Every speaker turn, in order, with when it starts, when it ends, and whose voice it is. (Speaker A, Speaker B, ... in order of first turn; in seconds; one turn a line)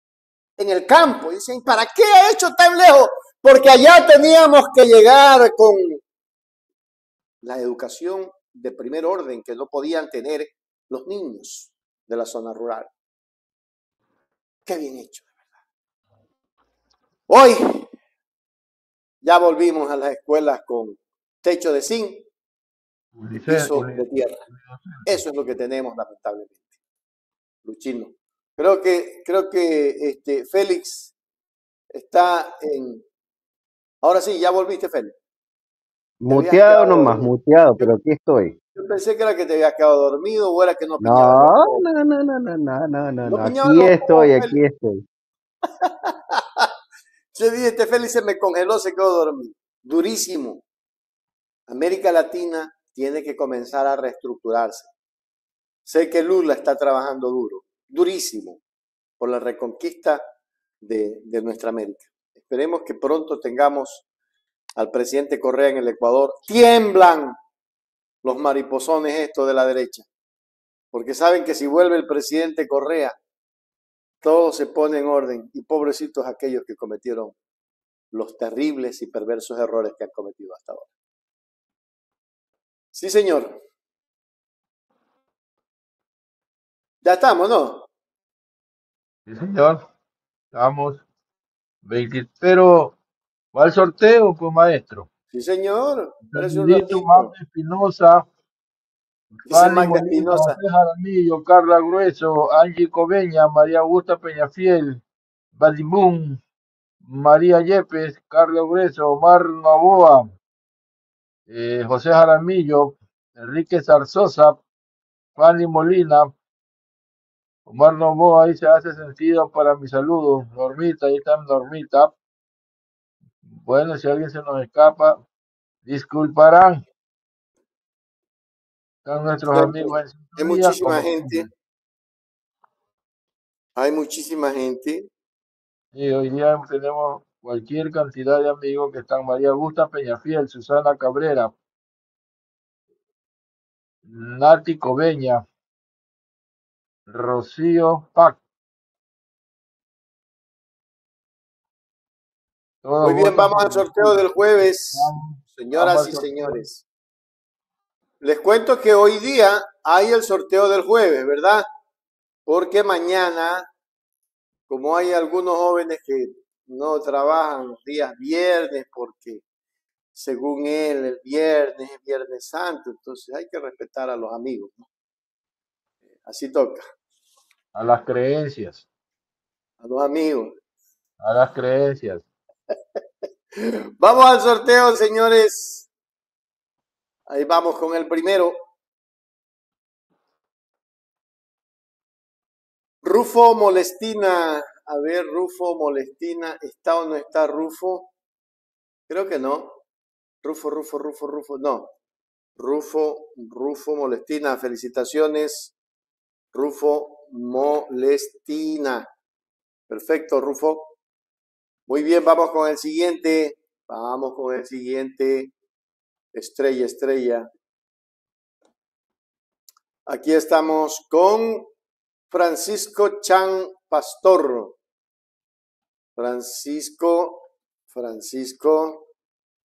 Speaker A: 0.6-6.0
Speaker A: 7.4-12.9
Speaker A: 14.7-15.3
Speaker A: 17.3-17.9
Speaker A: 19.2-22.2
Speaker B: 23.1-24.1
Speaker A: 23.5-24.4
Speaker B: 24.6-25.0
Speaker A: 25.0-26.6
Speaker A: 27.6-31.1
Speaker A: 31.9-33.0
Speaker A: 34.0-35.1
Speaker C: 36.2-38.5
Speaker A: 36.3-37.9
Speaker A: 38.7-41.8
Speaker C: 41.0-45.0
Speaker A: 43.2-44.5
Speaker A: 45.8-46.7
Speaker A: 47.3-50.6
Speaker A: 51.7-54.9
Speaker A: 55.8-58.6
Speaker A: 59.2-60.2
Speaker A: 60.8-64.0
Speaker A: 64.8-67.3
Speaker A: 68.2-70.0
Speaker A: 70.9-73.2
Speaker A: 74.2-77.3
Speaker A: 78.1-80.9
Speaker A: 82.9-83.6
Speaker A: 87.0-87.9
Speaker B: 89.3-89.9
Speaker B: 90.5-91.0
Speaker B: 91.8-92.9
Speaker B: 93.5-95.1
Speaker A: 95.3-97.3
Speaker B: 96.3-98.2
Speaker B: 99.4-105.0
Speaker A: 99.5-100.6
Speaker B: 105.5-106.4
Speaker B: 107.0-110.3
Speaker B: 111.5-114.6
Speaker B: 115.3-116.3
Speaker B: 117.7-122.1
Speaker B: 123.5-125.2
Speaker B: 125.8-126.8
Speaker B: 129.0-131.5
Speaker A: 129.5-131.5
Speaker A: 133.8-135.1
Speaker B: 135.9-141.5
Speaker B: 144.0-145.4
Speaker B: 147.1-148.4
Speaker B: 152.8-156.6
Speaker A: 153.0-156.8
Speaker A: 158.2-161.7
Speaker A: 162.5-163.7
Speaker A: 164.7-169.4
Speaker A: 170.1-174.9
Speaker A: 176.2-176.8
Speaker B: 177.7-178.8
Speaker A: 179.8-180.6
Speaker B: 181.2-182.2
Speaker A: 183.6-185.9
Speaker A: 187.3-188.6
Speaker A: 193.0-198.1
Speaker A: 199.1-199.8
Speaker A: 200.4-201.9
Speaker A: 202.6-205.7
Speaker A: 206.5-209.1
Speaker A: 209.9-210.9
Speaker A: 211.9-215.5
Speaker A: 216.3-217.5
Speaker A: 220.1-221.7
Speaker A: 222.3-224.8
Speaker A: 226.2-229.1